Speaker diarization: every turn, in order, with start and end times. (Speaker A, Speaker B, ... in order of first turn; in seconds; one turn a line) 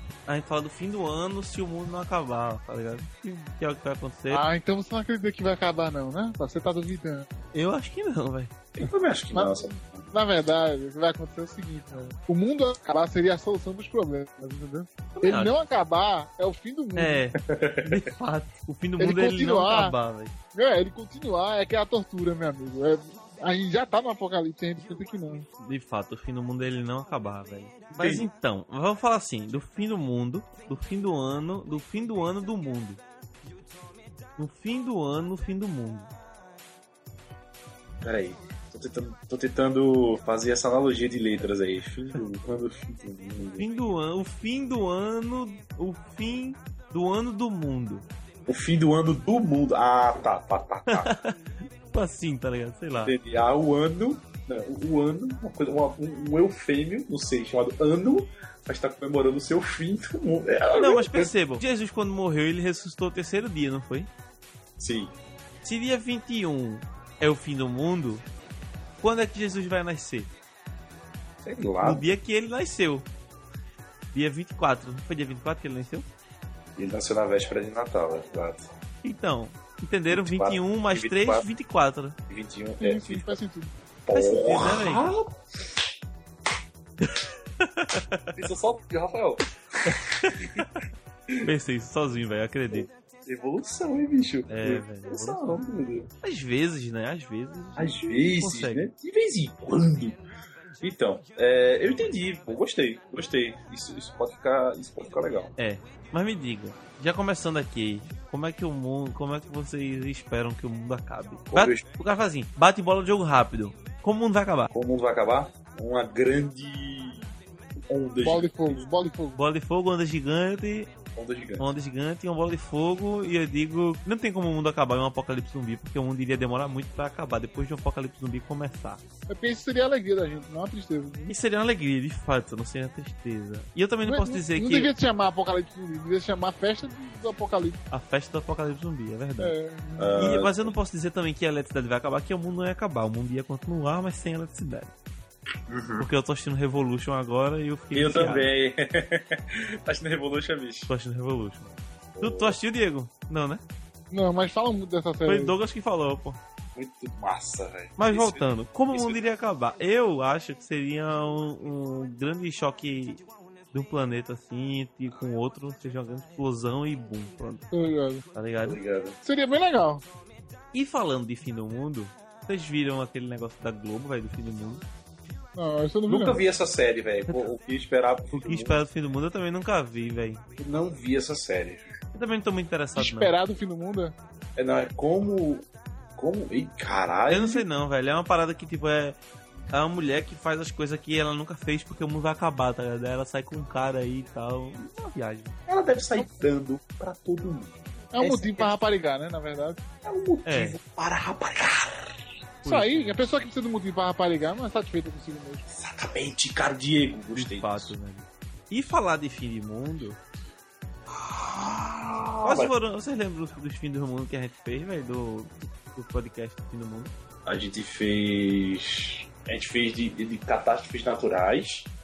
Speaker A: 0.3-4.4
Speaker B: 4.3-7.3
Speaker A: 7.5-8.5
Speaker C: 8.8-10.1
Speaker B: 9.3-17.2
Speaker A: 15.2-15.6
Speaker A: 17.0-20.3
Speaker C: 17.4-18.1
Speaker B: 19.0-19.9
Speaker B: 20.5-25.5
Speaker A: 25.6-33.0
Speaker C: 27.9-28.3
Speaker A: 34.4-36.1
Speaker C: 38.0-43.7
Speaker A: 43.6-48.0
Speaker C: 48.5-51.1
Speaker A: 50.9-51.3
Speaker A: 51.9-53.1
Speaker C: 53.0-61.3
Speaker A: 60.7-64.1
Speaker C: 64.8-65.1
Speaker A: 65.6-68.2
Speaker A: 69.0-70.3
Speaker C: 71.4-72.1
Speaker A: 71.8-73.1
Speaker A: 74.1-76.0
Speaker C: 76.8-78.7
Speaker A: 79.0-82.2
Speaker C: 80.1-81.5
Speaker C: 82.3-83.4
Speaker B: 82.8-83.7
Speaker C: 84.1-85.3
Speaker A: 84.1-85.0
Speaker A: 87.0-88.4
Speaker C: 88.4-90.7
Speaker A: 89.9-90.7
Speaker A: 91.4-92.9
Speaker C: 92.7-96.1
Speaker A: 94.5-95.6
Speaker A: 96.2-98.8
Speaker C: 97.8-100.2
Speaker C: 100.8-105.5
Speaker A: 105.6-114.7
Speaker C: 111.5-111.8
Speaker C: 114.7-117.3
Speaker C: 117.9-118.9
Speaker B: 118.2-119.4
Speaker A: 119.4-120.9
Speaker C: 121.2-121.7
Speaker A: 121.6-129.0
Speaker B: 129.3-131.3
Speaker A: 131.3-134.9
Speaker B: 134.1-137.8
Speaker A: 137.9-139.6
Speaker B: 139.4-140.2
Speaker C: 140.0-140.7
Speaker A: 140.2-144.9
Speaker C: 145.7-146.1
Speaker A: 146.0-148.5
Speaker C: 147.9-150.9
Speaker A: 150.9-153.6
Speaker C: 152.2-152.6
Speaker B: 154.1-155.6
Speaker A: 155.3-156.4
Speaker C: 156.8-159.2
Speaker A: 158.0-163.2
Speaker A: 163.7-167.7
Speaker B: 167.7-168.2
Speaker A: 168.3-168.8
Speaker C: 168.6-169.2
Speaker B: 169.2-170.1
Speaker A: 170.7-174.8
Speaker B: 175.6-176.4
Speaker C: 176.1-178.8
Speaker A: 178.3-180.4
Speaker C: 180.6-181.9
Speaker A: 182.1-183.3
Speaker B: 183.0-184.2
Speaker C: 184.6-187.7
Speaker A: 187.3-189.2
Speaker A: 189.7-195.6
Speaker C: 195.7-198.7
Speaker B: 198.1-199.8
Speaker C: 200.0-202.1
Speaker A: 200.5-200.8
Speaker A: 202.6-203.2
Speaker B: 202.7-205.7
Speaker C: 205.7-207.9
Speaker A: 207.3-210.2
Speaker C: 211.1-212.7
Speaker A: 212.4-217.1
Speaker C: 217.5-221.9